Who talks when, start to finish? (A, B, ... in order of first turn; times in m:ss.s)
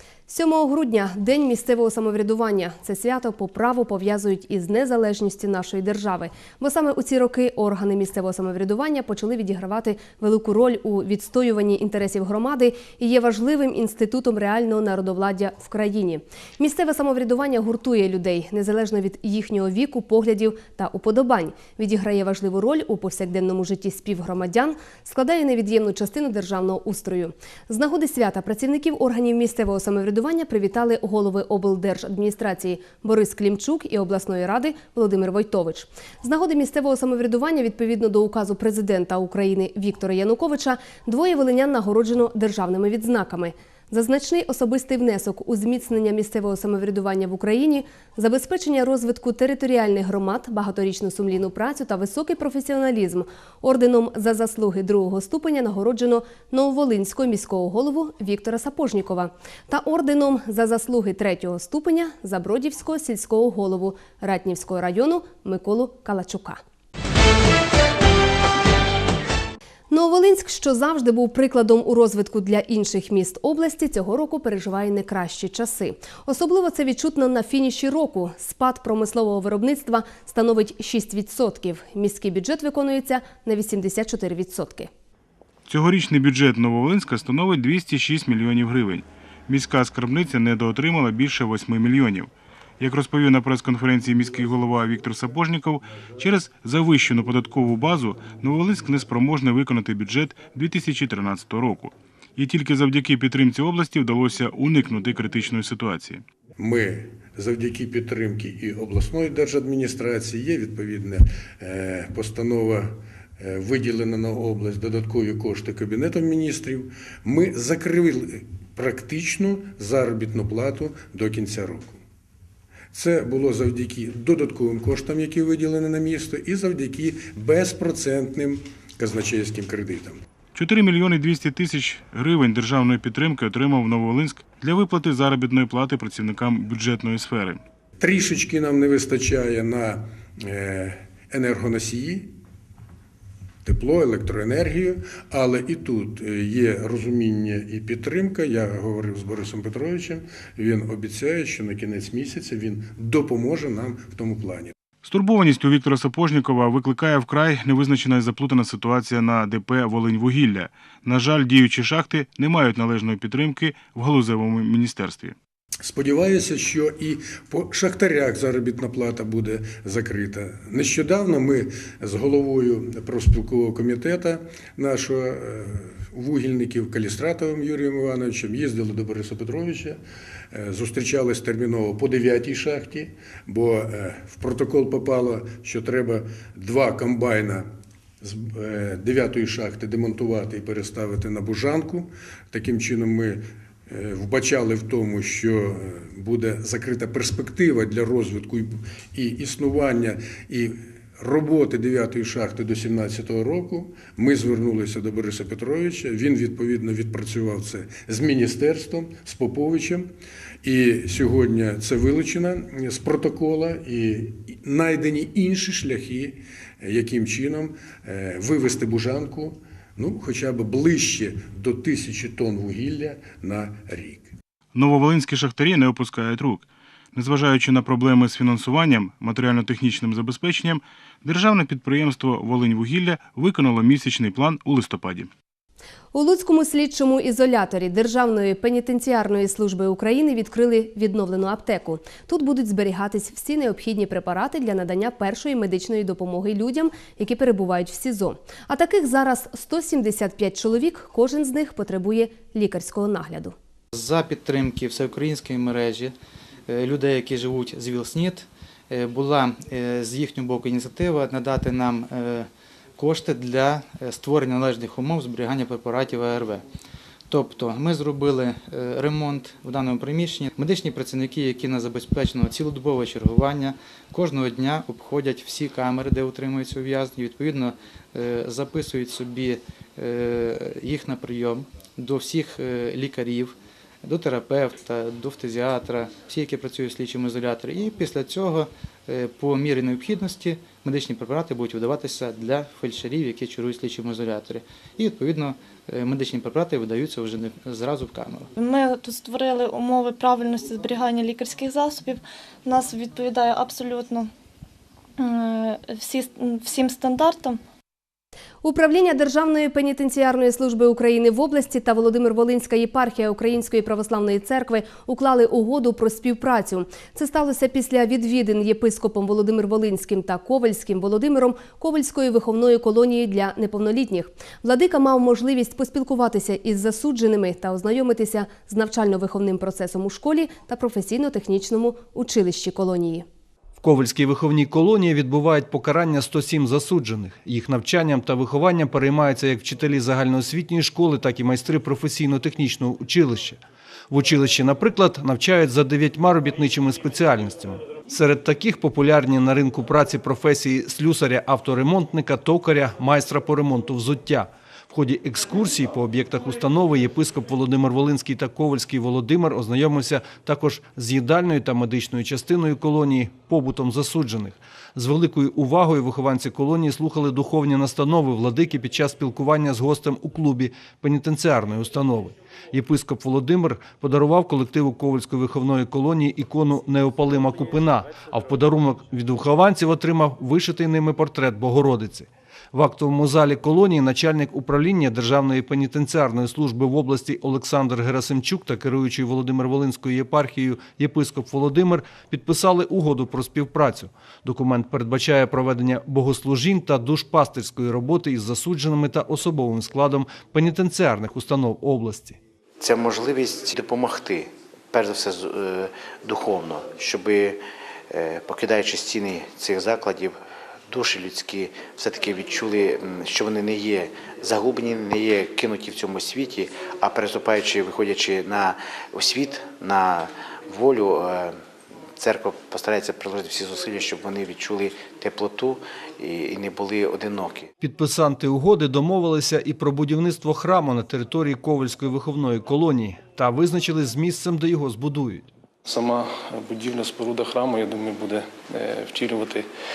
0:00.3-1:06.6 A
1:09.9-1:24.9 A
1:25.7-1:46.2 B
1:46.6-2:02.0 C
2:02.9-2:10.2 C
2:10.6-2:17.6 B
2:18.0-2:22.3 C
2:23.6-2:34.7 C
2:35.0-2:45.4 B
2:45.8-3:00.0 C
3:00.5-3:07.7 C
3:08.2-3:30.1 C
3:30.6-3:44.2 C
3:44.7-3:55.3 B
3:56.1-4:13.6 A
4:13.9-4:16.1 D
4:16.7-4:26.6 D
4:27.3-4:58.5 D
4:58.6-5:04.3 E
5:05.2-5:07.6 E
5:08.6-5:33.2 A
5:33.8-6:42.4 F
6:42.8-7:01.6 G
7:02.2-7:07.7 G
7:07.8-7:15.5 F
7:15.9-7:19.6 H